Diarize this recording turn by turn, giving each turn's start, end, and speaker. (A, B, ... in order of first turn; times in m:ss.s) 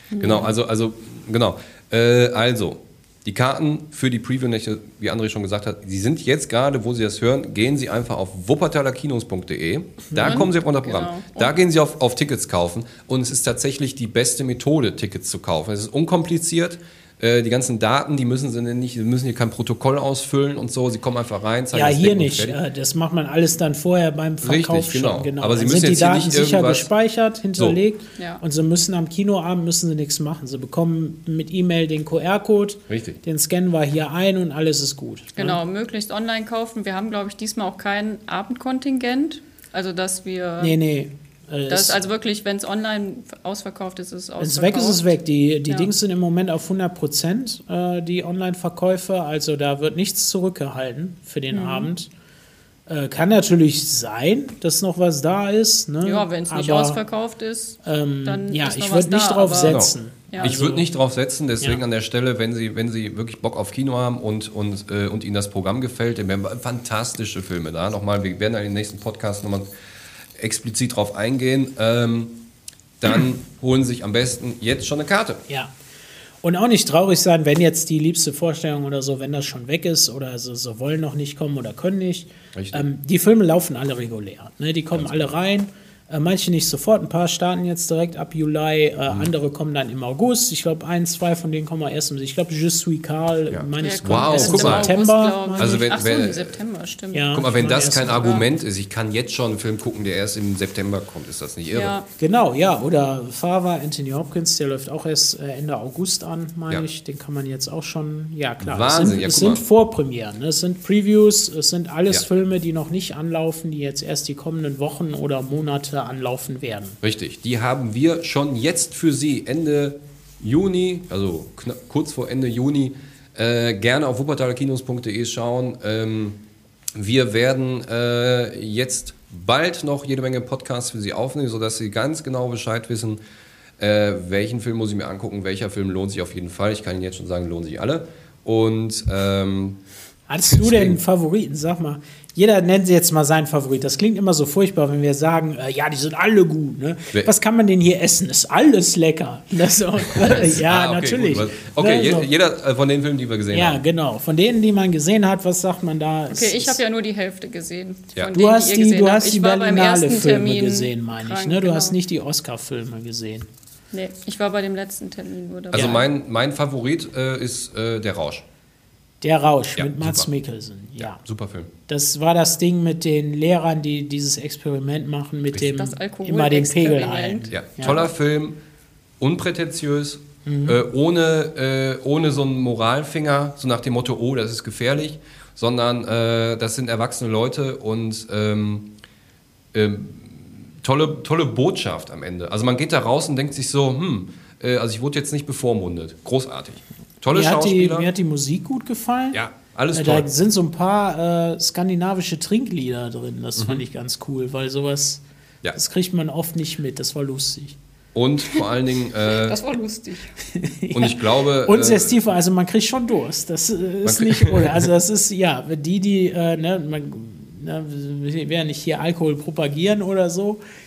0:00.1-0:00.5 A
0:00.2-0:22.6 B
0:10.2-0:11.6 A
0:21.7-0:35.6 C
0:24.4-0:26.9 B
0:28.2-0:28.4 A
0:32.9-0:33.2 B
0:35.4-0:40.8 A
0:40.6-0:42.0 C
0:41.7-0:45.2 A
0:44.4-0:52.1 C
0:51.5-0:51.9 A
0:52.9-0:57.0 C
0:56.0-1:00.6 A
0:57.8-1:00.9 C
0:59.6-1:09.7 B
1:10.4-1:12.4 B
1:13.0-1:15.4 B
1:16.4-1:35.8 C
1:22.5-1:22.9 B
1:24.9-1:25.3 B
1:33.5-1:34.9 B
1:33.8-1:37.5 A
1:35.6-1:36.6 B
1:37.1-1:38.4 C
1:37.3-1:42.0 B
1:38.1-1:38.4 A
1:41.7-1:42.1 A
1:42.2-1:57.0 C
1:48.6-1:49.6 B
1:57.0-2:06.4 B
2:07.0-2:13.2 B
2:13.8-2:19.8 B
2:20.3-2:32.3 C
2:20.5-2:21.0 B
2:30.1-2:33.8 B
2:33.5-2:36.8 C
2:36.3-2:42.0 A
2:38.3-2:43.5 C
2:43.9-2:46.0 A
2:45.7-2:48.4 B
2:45.7-2:46.0 C
2:49.2-2:51.2 C
2:49.8-2:50.3 B
2:51.0-2:51.7 B
2:51.9-2:58.0 C
2:55.6-2:58.0 A
2:57.5-2:58.6 B
2:59.2-3:08.9 B
3:00.5-3:00.8 C
3:09.7-3:18.1 B
3:17.3-3:25.2 C
3:19.3-3:20.3 B
3:23.6-3:23.8 B
3:25.7-3:27.8 C
3:28.2-3:29.6 B
3:29.3-3:30.3 A
3:30.5-3:40.6 C
3:30.9-3:32.2 B
3:34.0-3:34.9 B